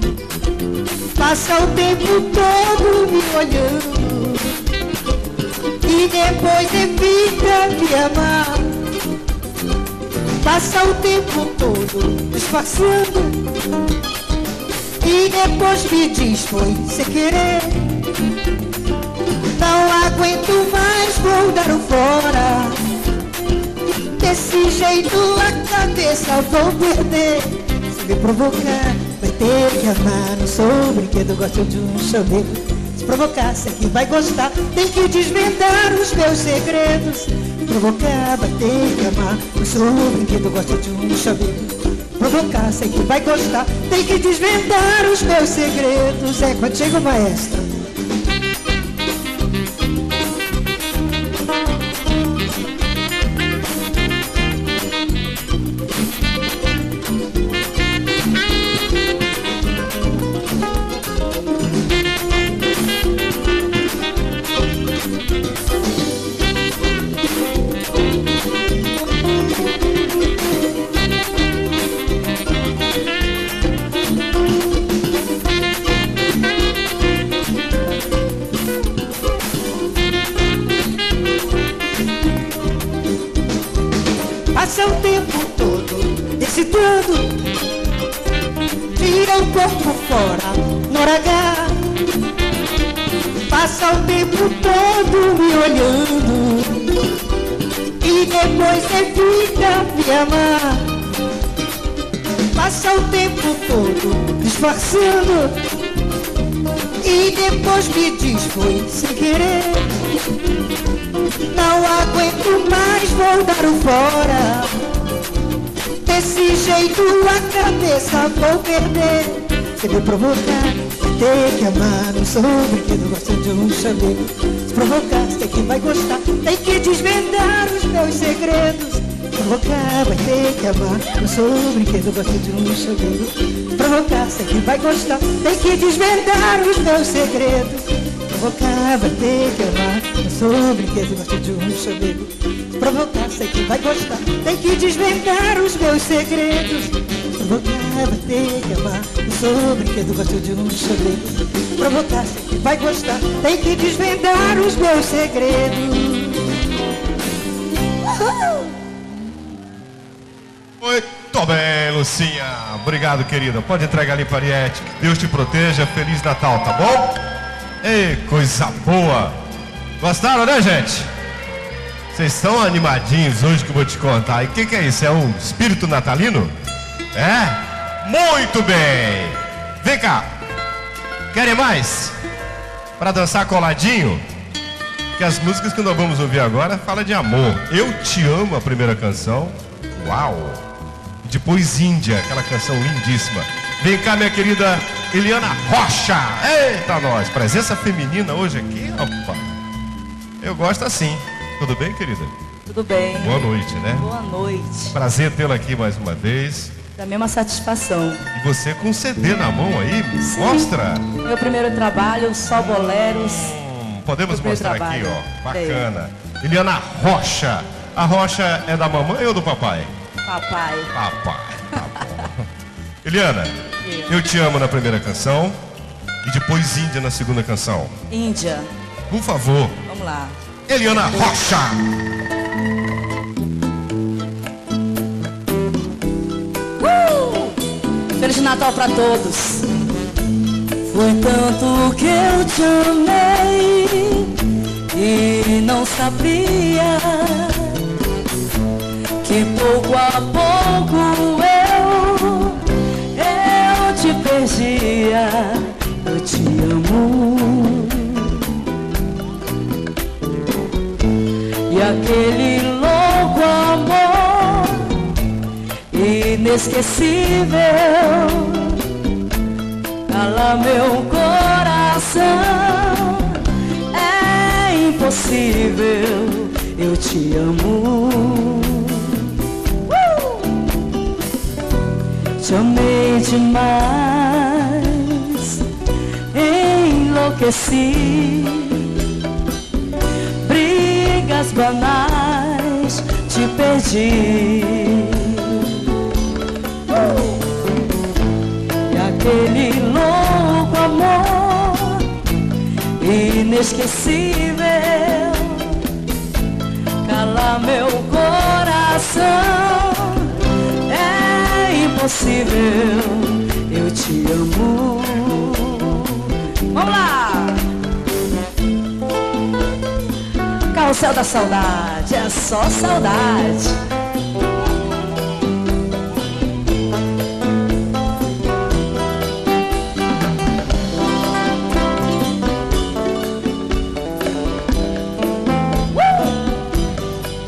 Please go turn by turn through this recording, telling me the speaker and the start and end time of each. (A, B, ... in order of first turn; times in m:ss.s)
0:01.2-0:04.5 A
0:05.8-0:08.7 A
0:10.4-0:13.4 A
0:15.0-0:17.8 A
0:19.6-0:22.8 A
0:24.2-0:47.7 A
1:24.5-1:27.3 A
1:29.0-1:31.8 A
1:33.5-1:37.0 A
1:38.0-1:40.9 A
1:42.6-1:45.6 A
1:47.0-1:49.9 A
1:51.5-1:54.7 A
1:56.0-2:36.5 A
2:38.2-2:38.7 A
2:40.8-2:47.2 B
2:47.8-2:49.4 B
2:50.0-2:51.1 B
2:52.1-2:56.5 B
2:57.2-3:00.3 B
3:01.3-3:02.2 B
3:03.0-3:04.2 B
3:05.2-3:10.6 B
3:11.2-3:19.5 B
3:20.4-3:22.3 B
3:22.7-3:25.0 C
3:23.2-3:24.1 B
3:24.9-3:26.8 B
3:27.0-3:28.2 C
3:28.4-3:31.1 B
3:30.2-3:33.5 C
3:33.4-3:39.9 B
3:34.3-3:35.9 C
3:40.3-3:40.9 C
3:40.9-3:42.5 B
3:43.0-3:43.6 B
3:43.8-3:44.2 C
3:44.1-3:45.6 B
3:46.2-3:47.9 B
3:48.1-3:48.7 C
3:49.1-3:49.8 B
3:49.9-3:50.4 C
3:50.7-3:51.8 B
3:56.8-3:57.6 C
3:58.2-3:59.7 C
4:00.9-4:07.9 C
4:09.2-4:18.6 C
4:21.7-4:25.2 C
4:25.9-4:28.9 C
4:30.1-4:40.7 C
4:42.4-4:45.6 C
4:46.3-4:49.0 C
4:50.4-4:55.9 C
4:56.9-4:57.5 C
4:58.9-5:02.3 C
5:03.0-5:05.9 C
5:07.0-5:17.7 C
5:20.7-5:23.8 C